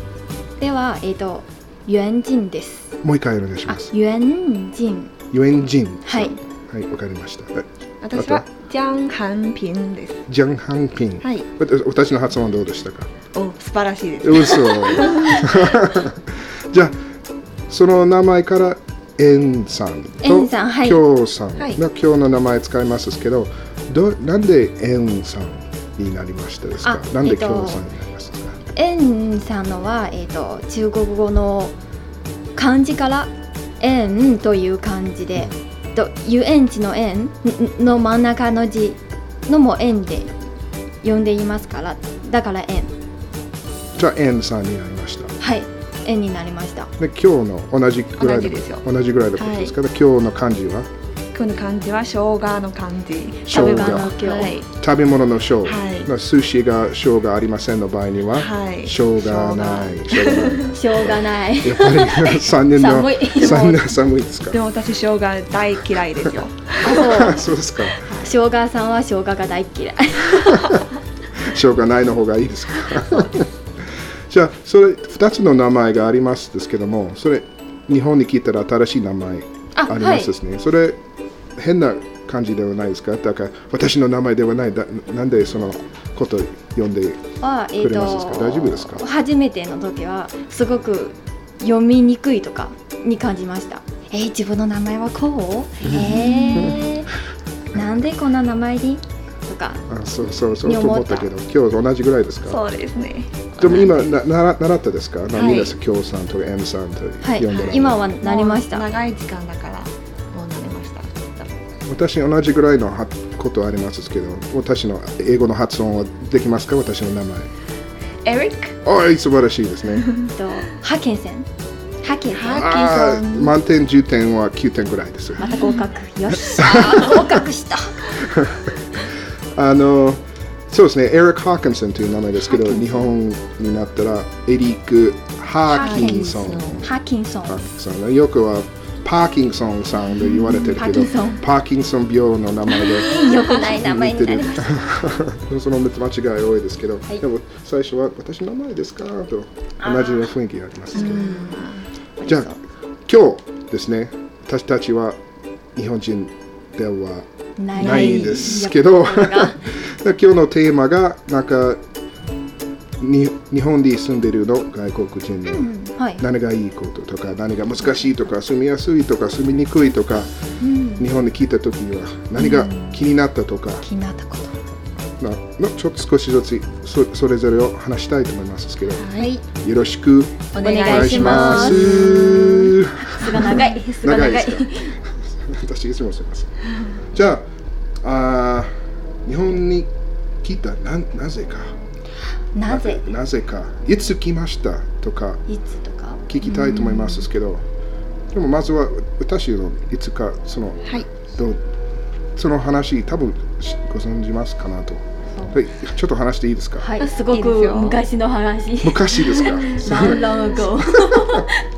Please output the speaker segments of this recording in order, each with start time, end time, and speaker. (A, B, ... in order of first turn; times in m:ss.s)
0:00.6-0:03.0 A
0:03.0-0:03.9 B
0:03.7-0:05.1 A
0:05.3-0:08.5 B
0:06.1-0:06.4 A
0:08.0-0:10.2 C
0:10.3-0:13.1 B
0:13.3-0:15.8 C
0:14.2-0:17.0 B
0:17.7-0:28.6 B
0:20.2-0:21.0 A
0:26.8-0:27.8 A
0:28.8-0:31.8 A
0:32.6-0:40.3 A
0:41.0-0:42.9 A
0:44.0-0:45.4 B
0:45.4-0:46.9 A
0:47.0-0:50.9 B
0:48.2-0:48.8 C
0:49.4-0:49.8 C
0:51.3-0:54.7 C
0:53.4-0:54.2 B
0:53.5-0:54.6 A
0:54.7-1:04.6 B
0:55.6-0:56.1 C
0:58.3-1:00.8 C
1:00.7-1:03.8 A
1:04.5-1:07.2 C
1:06.8-1:07.4 A
1:06.8-1:08.1 B
1:08.0-1:10.8 A
1:10.5-1:10.8 B
1:11.3-1:21.0 B
1:19.8-1:20.3 A
1:21.6-1:27.2 B
1:27.4-1:37.1 A
1:27.8-1:29.0 B
1:35.8-1:36.9 B
1:36.2-1:36.8 C
1:37.7-1:39.9 A
1:39.9-1:42.6 B
1:40.6-1:41.3 A
1:42.5-1:43.9 C
1:43.6-1:48.0 B
1:45.4-1:45.8 C
1:47.2-1:48.9 A
1:47.5-1:51.5 C
1:51.9-1:57.5 B
1:58.2-1:58.8 C
1:58.8-2:00.1 B
2:00.0-2:00.3 C
2:00.3-2:01.5 A
2:02.0-2:02.8 A
2:02.3-2:03.5 C
2:02.5-2:05.6 B
2:05.4-2:08.0 A
2:05.5-2:05.8 C
2:06.5-2:07.3 B
2:08.2-2:09.0 B
2:09.6-2:16.9 B
2:12.5-2:13.0 A
2:15.7-2:17.6 A
2:15.8-2:16.8 C
2:17.5-2:31.5 B
2:20.6-2:21.4 A
2:22.8-2:24.8 A
2:23.0-2:23.4 C
2:29.8-2:30.3 A
2:31.0-2:31.7 A
2:31.0-2:31.8 C
2:32.2-2:32.6 A
2:33.1-2:35.2 B
2:35.8-2:41.8 B
2:37.6-2:39.6 A
2:37.8-2:38.6 C
2:43.0-2:50.3 B
2:45.5-2:46.2 A
2:50.6-2:51.0 A
2:51.0-2:53.9 B
2:52.4-2:52.9 A
2:53.8-2:54.6 A
2:55.2-3:07.4 B
2:59.0-2:59.3 C
2:59.2-2:59.4 A
3:00.6-3:02.2 A
3:00.6-3:02.8 C
3:03.0-3:04.9 A
3:08.0-3:08.7 B
3:09.2-3:09.9 B
3:10.4-3:11.7 B
3:12.5-3:13.0 A
3:12.7-3:15.4 B
3:15.5-3:16.2 A
3:16.3-3:17.6 B
3:16.5-3:17.1 C
3:18.3-3:21.6 B
3:22.4-3:26.9 B
3:26.8-3:31.6 A
3:27.0-3:28.0 C
3:28.8-3:31.5 B
3:29.4-3:30.1 C